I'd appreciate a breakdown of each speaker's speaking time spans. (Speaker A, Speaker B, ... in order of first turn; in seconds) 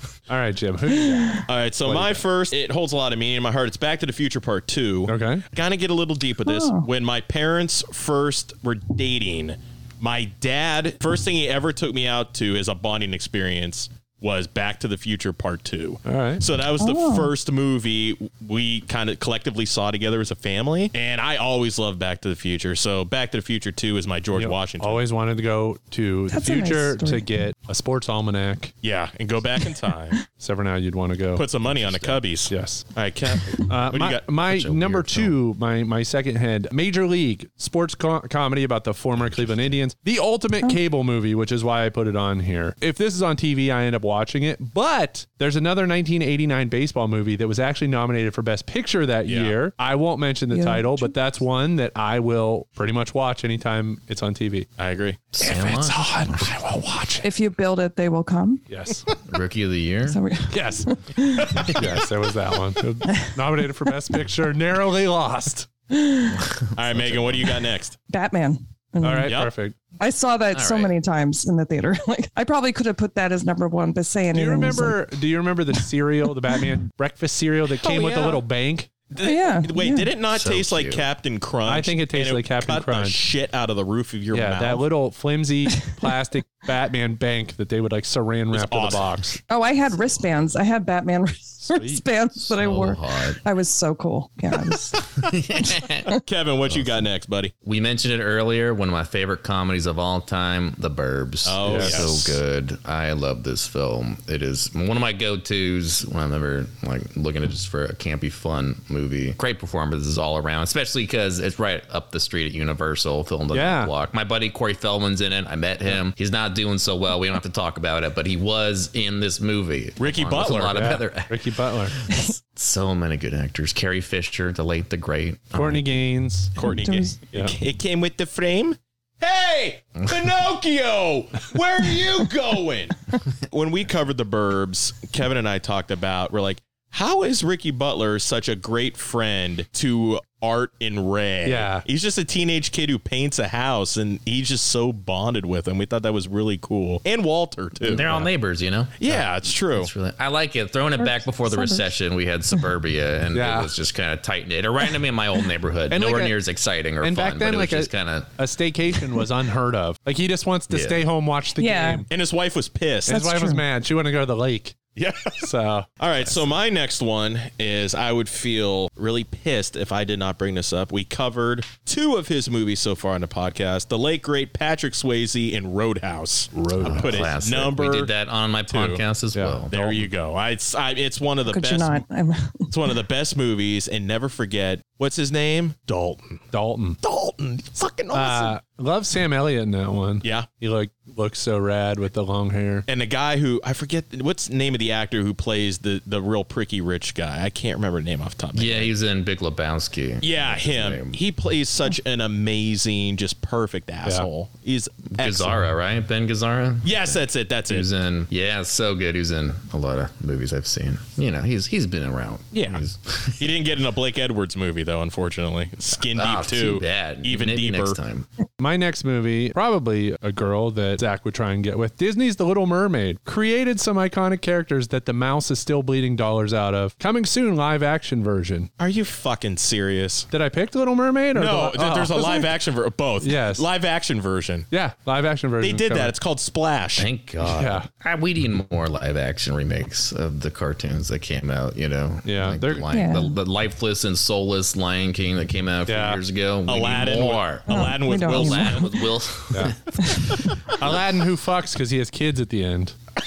Speaker A: 0.3-2.2, 5.1-5.4, 16.1-16.4, 24.4-28.7, 30.4-31.5, 32.5-32.9, 33.6-54.7, 55.4-57.3, 58.7-59.1, 60.5-60.9, 61.7-65.7, 69.0-69.8, 74.3-78.9, 81.7-83.2, 84.3-89.4, 91.6-92.0, 101.6-102.1, 113.5-113.9, 120.7-122.0, 125.5-126.5, 141.4-141.8, 153.3-153.7, 155.9-156.4, 157.0-162.1, 163.1-164.8, 165.4-165.9, 176.5-177.3, 179.3-180.0, 186.5-187.0, 188.1-192.8, 218.6-228.7, 230.3-232.4, 233.2-233.7, 234.7-236.1, 237.4-237.9, 242.2-242.8, 245.9-246.2, 249.5-249.8, 250.8-252.9
Speaker B: 1.0-1.4, 6.5-6.9, 16.8-17.3, 26.3-27.3, 50.5-51.1, 57.2-58.7, 60.1-61.7, 65.9-66.4, 68.1-69.3, 70.0-75.1, 79.2-80.1, 89.5-95.3, 126.6-127.2, 151.0-151.9, 161.6-162.1, 163.1-163.6, 181.5-182.7, 242.9-243.3, 247.7-248.9, 250.0-250.3
Speaker C: 1.5-25.0, 28.8-30.2, 31.4-34.2, 49.3-49.5, 54.8-55.2, 66.8-68.0, 77.8-78.4, 79.1-84.8, 88.5-89.3, 96.2-97.5, 101.5-102.4, 120.0-120.8, 126.6-133.0, 133.5-148.1, 149.0-149.9, 162.1-163.2, 165.0-165.5, 166.0-178.1, 178.7-179.0, 179.7-182.0, 182.7-186.4, 187.0-188.6, 192.9-198.9, 200.2-205.6, 206.8-207.9, 212.5-212.8, 213.4-218.0, 228.8-230.3, 231.3-234.7, 235.6-237.1, 246.7-248.9
Speaker D: 31.7-32.2, 34.4-35.4, 39.1-39.8, 55.3-56.6, 59.2-60.2, 66.3-67.6, 70.5-71.0, 80.3-81.1, 92.4-93.4, 94.7-96.1, 96.7-97.0, 97.6-126.0, 130.0-130.3, 147.8-158.4, 160.7-161.1, 166.2-166.6, 176.8-179.8, 198.5-201.2, 205.1-213.5, 216.1-218.3, 237.0-251.0